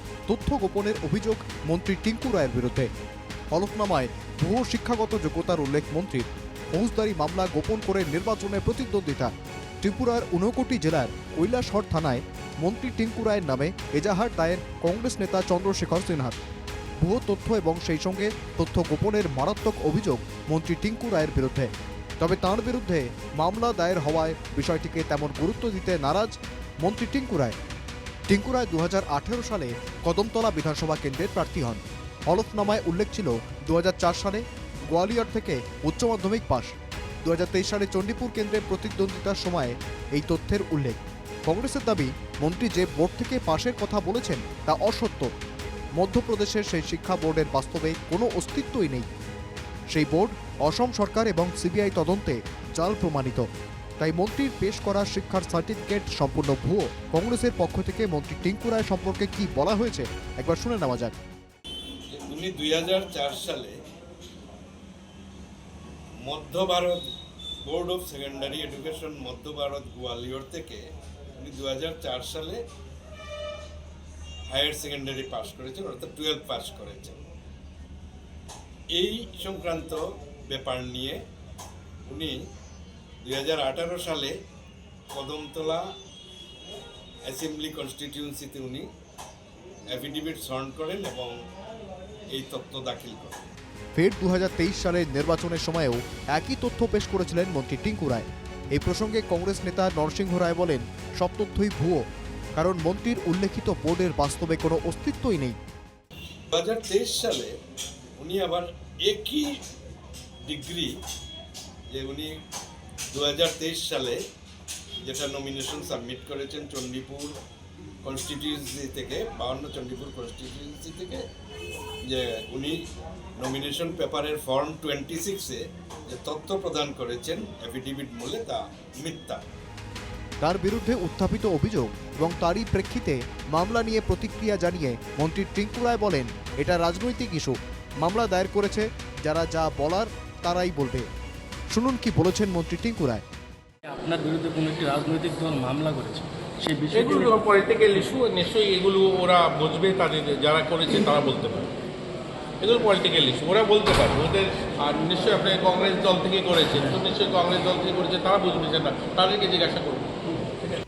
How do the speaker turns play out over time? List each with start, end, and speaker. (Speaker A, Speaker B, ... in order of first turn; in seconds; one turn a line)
Speaker A: 0.3-2.9
Speaker A: 3.5-16.4
Speaker A: 17.0-27.6
Speaker A: 28.3-36.7
Speaker A: 37.2-45.3
Speaker A: 46.0-49.1
Speaker A: 49.9-53.5
Speaker A: 54.0-61.1
Speaker B: 62.1-63.8
Speaker B: 66.2-67.0
Speaker B: 67.6-70.8
Speaker B: 71.3-72.6
Speaker B: 74.5-77.2
Speaker B: 78.9-81.2
Speaker B: 82.0-82.4
Speaker B: 83.2-84.3
Speaker B: 85.1-85.8
Speaker B: 87.2-88.9
Speaker B: 89.9-91.4
Speaker B: 92.3-93.4
Speaker A: 93.9-105.6
Speaker B: 106.5-107.5
Speaker B: 108.2-109.6
Speaker B: 110.4-111.0
Speaker B: 111.9-112.3
Speaker B: 113.1-114.2
Speaker B: 115.0-117.3
Speaker B: 118.0-121.2
Speaker B: 122.0-122.8
Speaker B: 123.4-129.4
Speaker A: 130.4-141.1
Speaker A: 141.7-143.2
Speaker C: 143.9-148.1
Speaker D: 146.9-151.7
Speaker D: 152.6-160.8